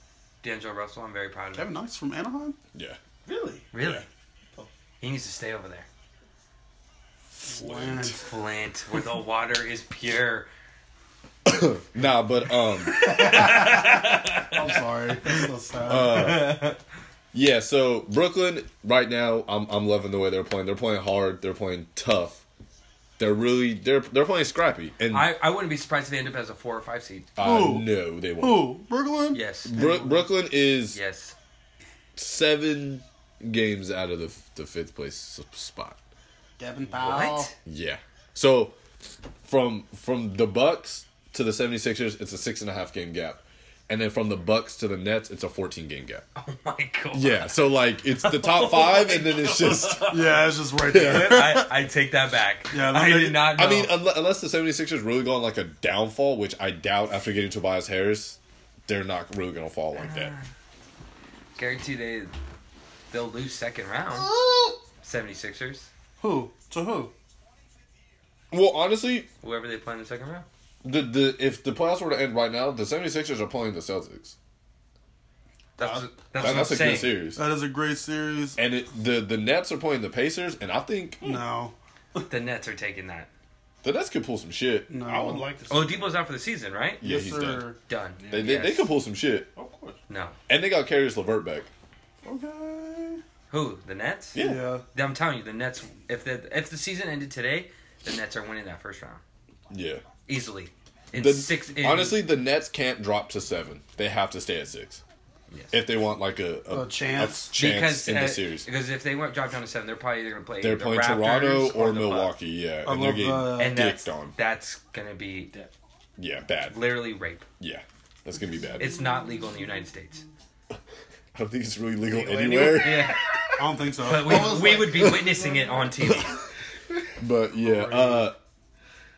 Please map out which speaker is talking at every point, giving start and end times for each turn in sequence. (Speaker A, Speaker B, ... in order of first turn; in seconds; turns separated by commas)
Speaker A: 0.4-1.7, Speaker B: 1.6-2.6, Speaker C: 2.7-3.0, Speaker D: 3.2-3.6, Speaker A: 3.7-4.1, Speaker C: 3.8-4.0, Speaker A: 5.0-5.9, Speaker B: 7.5-8.2, Speaker C: 7.5-8.2, Speaker A: 8.2-10.5, Speaker C: 11.4-13.3, Speaker A: 12.9-14.6, Speaker B: 13.0-16.5, Speaker C: 15.9-16.7, Speaker C: 17.3-22.4, Speaker C: 23.2-25.3, Speaker A: 25.1-27.3, Speaker C: 27.4-28.7, Speaker B: 27.4-30.2, Speaker A: 29.3-29.8, Speaker C: 29.6-31.0, Speaker A: 30.9-31.4, Speaker C: 32.1-36.0, Speaker B: 36.6-37.5, Speaker A: 37.0-37.5, Speaker C: 37.6-38.8, Speaker C: 39.4-46.2, Speaker A: 46.4-53.9, Speaker C: 47.1-50.3, Speaker B: 50.1-51.8, Speaker C: 50.8-51.6, Speaker B: 52.7-53.5, Speaker C: 53.5-60.3, Speaker A: 60.0-60.5, Speaker A: 61.5-62.3, Speaker A: 63.1-64.3, Speaker B: 64.1-64.8, Speaker A: 65.0-65.9, Speaker B: 66.2-67.1, Speaker C: 68.5-69.3, Speaker A: 69.4-70.5, Speaker C: 70.8-74.3, Speaker A: 75.8-77.2, Speaker B: 75.8-78.6, Speaker C: 76.4-77.4, Speaker C: 78.6-81.4, Speaker B: 81.2-82.3, Speaker A: 82.3-83.3, Speaker C: 83.8-84.9, Speaker B: 84.9-85.5, Speaker D: 85.0-86.2, Speaker A: 85.7-87.0, Speaker C: 87.0-87.7, Speaker B: 87.0-87.8, Speaker A: 87.9-88.9, Speaker D: 88.2-88.6, Speaker C: 88.3-89.5, Speaker D: 89.5-90.0, Speaker A: 90.1-90.4, Speaker C: 90.5-91.7, Speaker B: 92.2-93.2, Speaker A: 93.5-94.4, Speaker C: 94.3-94.6, Speaker B: 94.4-94.8, Speaker A: 94.9-99.2, Speaker C: 99.7-100.0, Speaker A: 100.3-102.2, Speaker C: 101.1-105.0, Speaker A: 105.5-105.8, Speaker C: 105.7-108.7, Speaker B: 106.7-107.5, Speaker A: 107.5-112.3, Speaker C: 110.6-114.3, Speaker B: 112.8-113.8, Speaker A: 113.6-115.5, Speaker C: 116.2-116.9, Speaker A: 116.7-117.5, Speaker C: 117.6-119.0, Speaker A: 118.8-120.2, Speaker C: 121.3-123.2, Speaker D: 122.1-123.2, Speaker A: 122.8-123.2, Speaker B: 123.6-124.9, Speaker A: 124.0-126.3, Speaker D: 124.0-126.2, Speaker C: 127.2-128.4, Speaker B: 127.6-128.3